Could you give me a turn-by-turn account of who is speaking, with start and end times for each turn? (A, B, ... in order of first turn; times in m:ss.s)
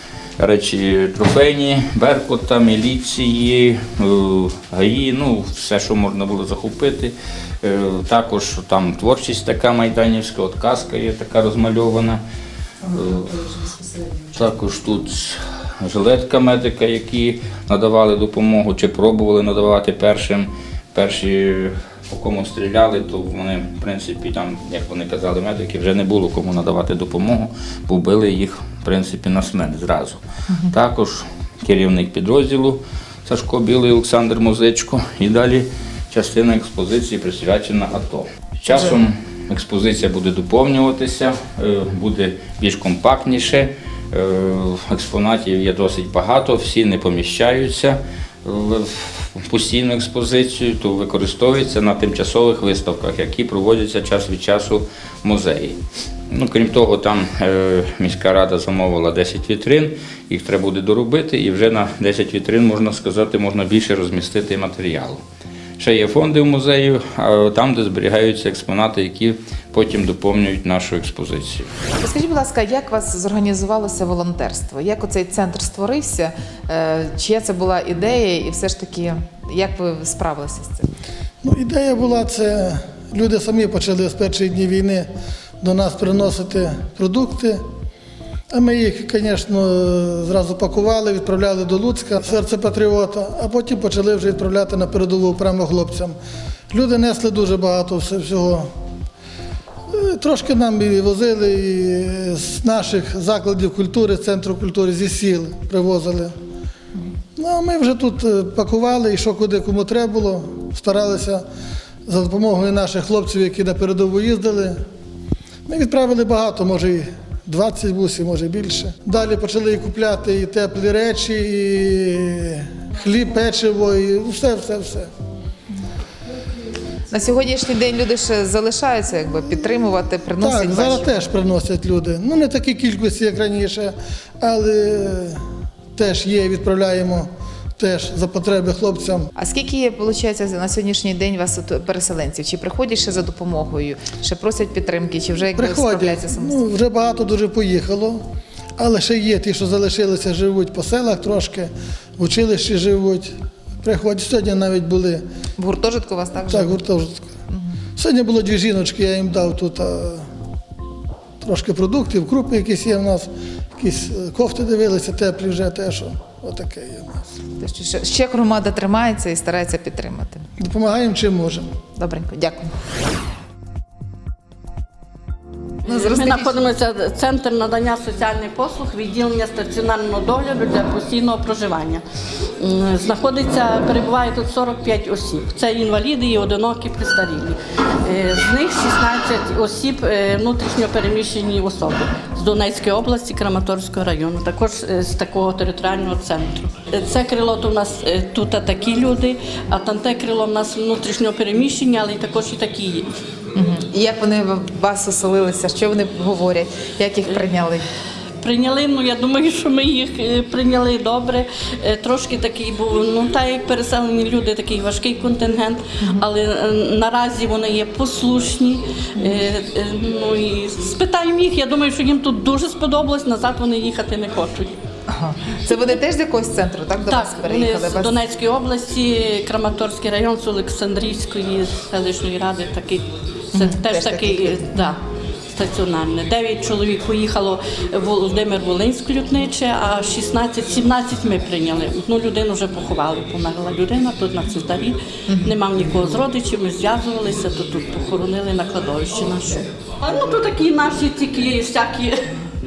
0:00.4-0:12.2 A
0:12.9-0:13.4 A
0:13.4-0:14.1 B
0:14.3-0:55.8 A
0:56.3-1:05.2 A
1:05.8-1:11.7 A
1:12.0-1:20.9 B
1:21.4-1:25.1 C
1:25.6-1:27.6 C
1:28.5-1:36.2 C
1:36.7-1:38.7 C
1:39.9-1:46.3 C
1:47.4-1:51.4 C
1:52.0-1:54.8 C
1:55.6-2:05.1 C
2:07.1-2:11.2 B
2:10.4-2:15.4 C
2:15.9-2:19.3 C
2:19.4-2:26.6 B
2:25.6-2:28.2 C
2:28.8-2:35.2 C
2:35.6-2:36.8 B
2:36.5-2:37.3 C
2:38.0-2:40.3 C
2:41.4-2:47.2 C
2:47.6-2:50.4 B
2:50.6-2:51.7 C
2:52.0-2:52.7 B
2:55.8-3:02.0 D
2:55.8-2:56.6 B
3:02.6-3:23.1 D
3:23.5-3:27.8 B
3:27.3-3:27.6 D
3:28.4-3:44.8 D
3:45.1-3:48.1 B
3:47.0-3:55.0 D
3:53.5-3:54.8 B
3:55.5-4:12.3 D
4:05.3-4:05.5 B